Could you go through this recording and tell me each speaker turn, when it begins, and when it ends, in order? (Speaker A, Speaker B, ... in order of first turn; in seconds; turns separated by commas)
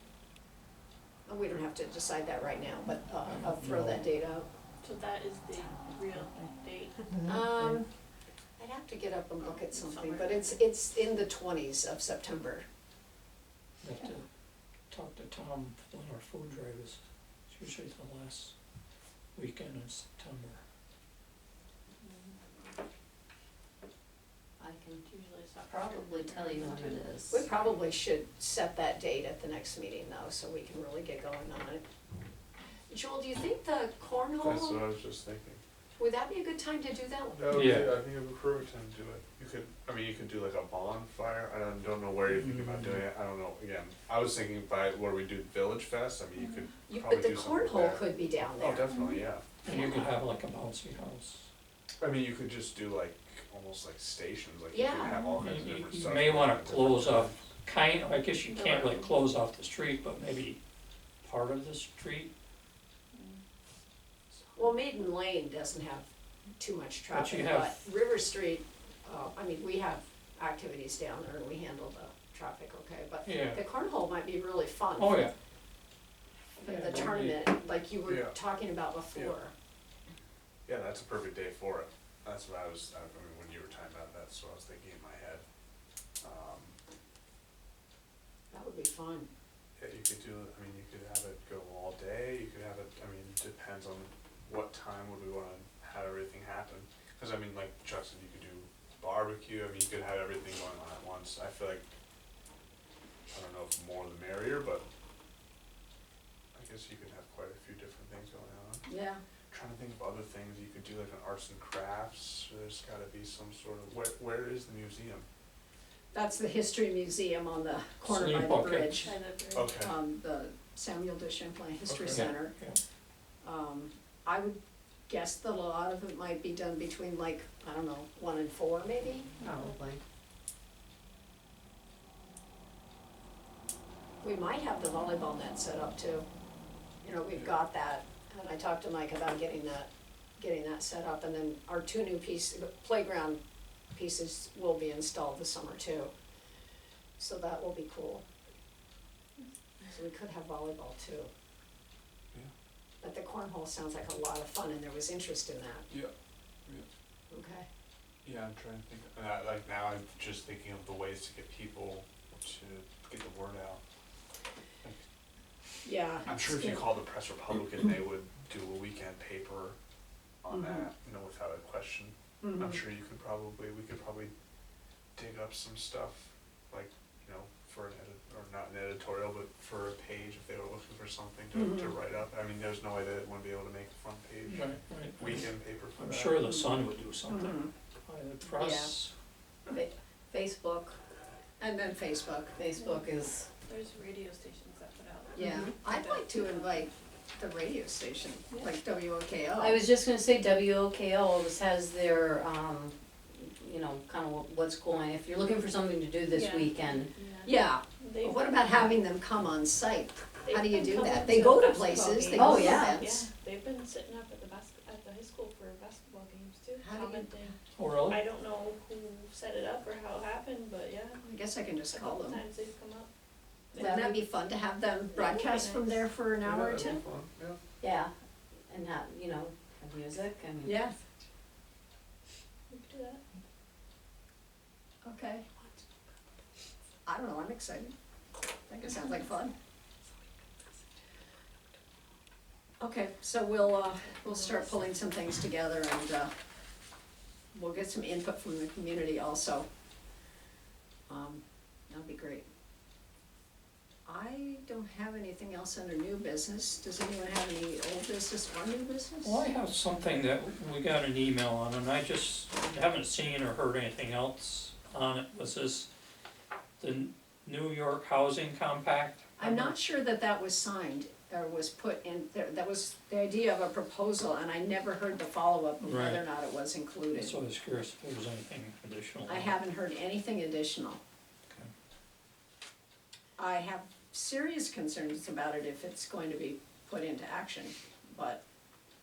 Speaker A: 1.3-4.5, Speaker B: 3.5-4.0, Speaker C: 4.8-7.2, Speaker A: 7.3-7.9, Speaker A: 8.6-12.7, Speaker C: 9.4-10.6, Speaker B: 13.8-14.3, Speaker B: 14.9-18.5, Speaker B: 19.4-20.6, Speaker C: 22.0-22.3, Speaker D: 24.6-25.0, Speaker C: 25.1-27.1, Speaker D: 25.7-27.4, Speaker A: 27.3-31.8, Speaker A: 32.9-34.8, Speaker E: 34.4-35.6, Speaker A: 36.0-37.8, Speaker E: 37.3-49.5, Speaker B: 37.5-38.0, Speaker B: 42.3-43.0, Speaker C: 46.4-46.6, Speaker A: 46.9-48.9, Speaker B: 49.6-51.5, Speaker A: 49.7-50.0, Speaker E: 52.0-57.5, Speaker A: 54.7-55.3, Speaker B: 55.4-60.6, Speaker C: 58.5-59.1, Speaker B: 61.2-62.3, Speaker C: 63.1-63.4, Speaker A: 64.6-66.1, Speaker A: 66.6-75.2, Speaker B: 67.1-67.8, Speaker B: 73.2-73.6, Speaker B: 75.0-75.3, Speaker A: 76.6-79.5, Speaker B: 76.6-77.4, Speaker E: 78.1-78.4, Speaker E: 80.7-85.4, Speaker E: 86.2-86.8, Speaker A: 88.5-89.3, Speaker E: 89.8-101.9, Speaker E: 103.3-104.8, Speaker E: 106.5-108.9, Speaker A: 108.9-109.2, Speaker E: 109.5-115.3, Speaker A: 116.1-119.1, Speaker B: 118.0-119.1, Speaker C: 119.0-119.7, Speaker E: 119.5-120.0, Speaker A: 119.8-122.5, Speaker E: 121.9-122.3, Speaker B: 122.1-122.8, Speaker A: 123.4-129.3, Speaker D: 129.4-130.0, Speaker A: 134.2-136.3, Speaker A: 137.0-143.4, Speaker A: 143.9-146.1, Speaker A: 147.2-148.2, Speaker A: 149.9-151.3, Speaker A: 153.0-155.9, Speaker A: 157.3-157.7, Speaker E: 158.2-163.8, Speaker A: 165.8-166.9, Speaker E: 166.3-169.8, Speaker E: 170.4-174.3, Speaker A: 170.5-170.9, Speaker A: 172.4-172.8, Speaker E: 175.2-186.4, Speaker A: 181.5-181.9, Speaker B: 184.4-189.1, Speaker A: 186.4-187.7, Speaker A: 188.5-188.9, Speaker D: 189.7-191.0, Speaker A: 191.6-192.6, Speaker D: 192.6-193.5, Speaker C: 192.8-193.1, Speaker C: 193.7-196.8, Speaker A: 195.4-199.8, Speaker D: 199.6-207.1, Speaker C: 206.3-208.8, Speaker A: 207.4-213.3, Speaker C: 210.4-217.6, Speaker D: 212.3-213.0, Speaker A: 216.8-217.3, Speaker B: 217.8-218.2, Speaker C: 218.1-221.2, Speaker A: 221.2-222.4, Speaker C: 221.9-223.1, Speaker C: 223.7-224.2, Speaker A: 223.8-227.0, Speaker D: 223.8-224.2, Speaker C: 225.1-226.1, Speaker E: 226.4-227.6, Speaker D: 227.8-228.1, Speaker D: 228.7-230.8, Speaker A: 230.6-230.9, Speaker C: 232.7-233.2, Speaker A: 235.0-235.5, Speaker A: 237.1-237.9, Speaker A: 238.7-239.5, Speaker A: 242.8-246.3, Speaker C: 244.2-244.8, Speaker A: 247.5-249.7, Speaker A: 251.1-252.4, Speaker A: 254.1-259.4, Speaker B: 259.2-265.9, Speaker B: 266.8-269.8, Speaker A: 269.4-277.4, Speaker B: 275.8-276.2, Speaker B: 277.1-279.6, Speaker A: 279.3-281.0, Speaker A: 283.4-288.4